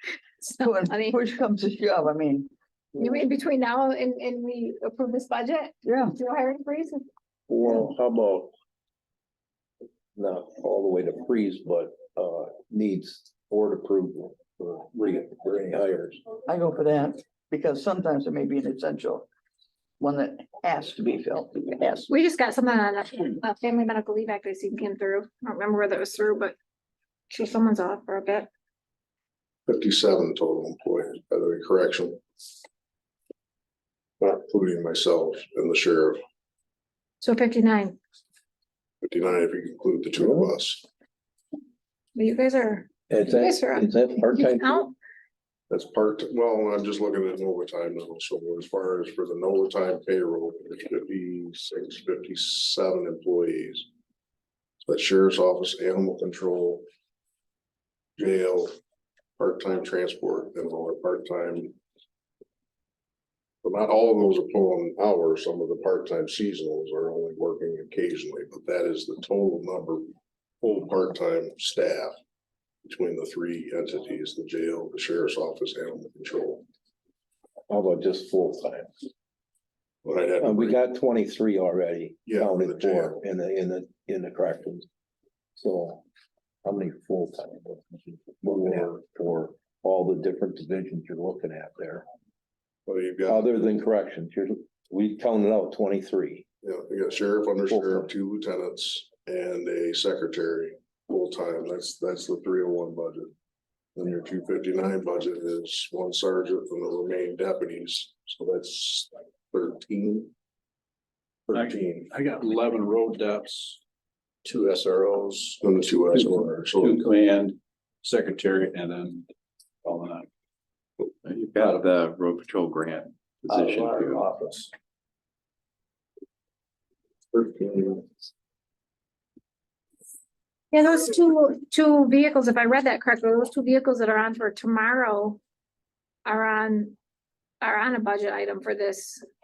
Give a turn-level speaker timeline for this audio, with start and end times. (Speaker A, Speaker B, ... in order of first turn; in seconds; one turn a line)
Speaker A: 0.4-1.2
Speaker B: 0.6-2.5
Speaker A: 3.0-7.0
Speaker B: 5.8-6.1
Speaker C: 7.5-8.5
Speaker C: 10.1-16.2
Speaker B: 16.4-19.3
Speaker B: 20.0-22.1
Speaker A: 22.1-26.5
Speaker A: 27.3-28.5
Speaker D: 29.7-32.2
Speaker D: 34.2-36.2
Speaker A: 37.2-38.0
Speaker D: 39.0-40.8
Speaker C: 40.2-40.5
Speaker A: 42.1-44.9
Speaker C: 43.1-44.9
Speaker D: 45.7-53.9
Speaker D: 54.8-56.8
Speaker D: 58.2-58.7
Speaker D: 59.4-61.8
Speaker D: 63.6-72.1
Speaker D: 72.8-76.6
Speaker C: 77.7-78.9
Speaker D: 80.0-80.8
Speaker C: 80.4-84.8
Speaker D: 82.2-83.2
Speaker C: 85.5-86.0
Speaker C: 86.6-92.0
Speaker D: 92.8-93.5
Speaker C: 93.3-96.4
Speaker D: 96.6-103.3
Speaker C: 97.7-98.1
Speaker D: 104.0-110.3
Speaker D: 111.5-112.1
Speaker E: 111.5-113.8
Speaker E: 114.4-119.3
Speaker D: 115.6-117.1
Speaker E: 119.8-120.3
Speaker F: 121.2-124.3
Speaker E: 123.5-124.7
Speaker C: 127.5-128.0
Speaker A: 130.7-135.4
Speaker A: 136.2-136.9
Speaker A: 137.6-139.2